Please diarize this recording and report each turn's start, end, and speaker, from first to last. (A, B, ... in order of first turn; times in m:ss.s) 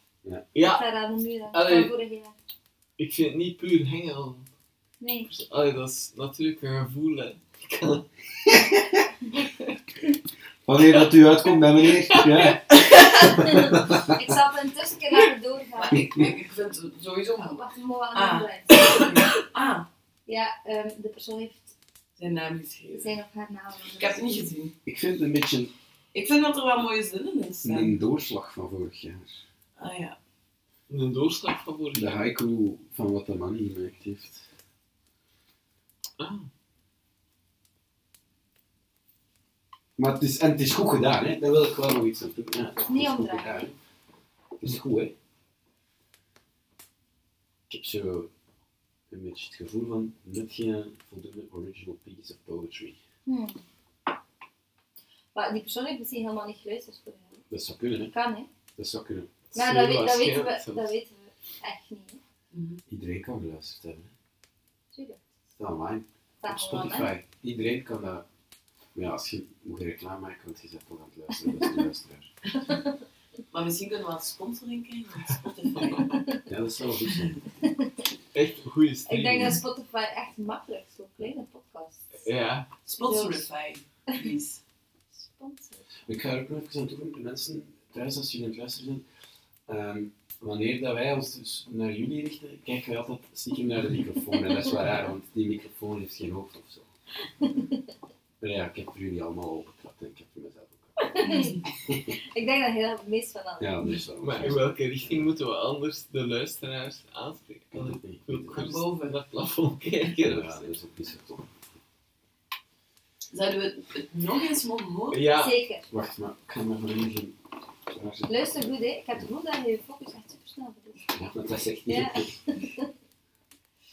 0:00.5-0:00.8 A
0:00.6-0:02.4 B
0:01.5-0:01.9 A
0:03.0-0:04.5 A
0:05.0-0:05.3 B
0:05.3-0:08.1 A
0:08.5-0:09.0 C
0:09.3-0:09.8 A
0:10.6-0:14.0 C
0:11.8-0:12.6 A
0:12.8-0:16.1 B
0:15.8-0:19.9 D
0:17.4-0:19.4 B
0:20.2-0:21.7 B
0:22.2-0:23.1 D
0:23.0-0:24.3 B
0:23.9-0:24.7 D
0:24.8-0:25.7 C
0:26.1-0:28.0 D
0:27.6-0:29.4 C
0:29.8-0:30.2 D
0:30.9-0:32.2 A
0:31.9-0:34.4 C
0:36.2-0:36.5 A
0:40.0-0:43.7 C
0:42.8-0:43.7 B
0:44.6-0:45.1 C
0:47.7-0:48.3 C
0:49.1-0:53.0 C
0:53.2-0:53.6 B
0:55.3-0:57.4 B
0:57.5-0:58.1 C
0:58.1-0:58.5 B
0:58.8-0:59.3 C
0:59.5-1:01.0 A
0:59.5-1:02.2 B
1:02.5-1:02.8 D
1:02.9-1:04.1 C
1:04.9-1:05.2 B
1:05.6-1:08.2 C
1:06.4-1:07.1 B
1:08.9-1:12.3 C
1:12.5-1:13.0 B
1:13.5-1:16.1 D
1:15.8-1:16.1 A
1:16.4-1:17.4 C
1:17.6-1:17.9 B
1:18.3-1:19.6 A
1:19.1-1:22.3 B
1:22.2-1:22.7 A
1:22.8-1:24.6 D
1:23.0-1:23.4 B
1:25.1-1:26.0 B
1:26.0-1:29.0 C
1:29.7-1:36.9 C
1:34.3-1:34.8 B
1:38.4-1:41.0 C
1:41.0-1:41.6 B
1:42.3-1:43.9 B
1:43.6-1:45.3 C
1:44.2-1:50.8 A
1:47.7-1:48.8 C
1:48.5-1:49.2 D
1:50.2-1:51.5 C
1:53.3-1:55.2 D
1:55.1-1:55.6 A
1:55.3-1:55.9 B
1:55.9-1:57.3 C
1:57.9-1:58.5 C
1:58.3-2:01.1 B
2:01.1-2:02.3 C
2:01.9-2:02.9 B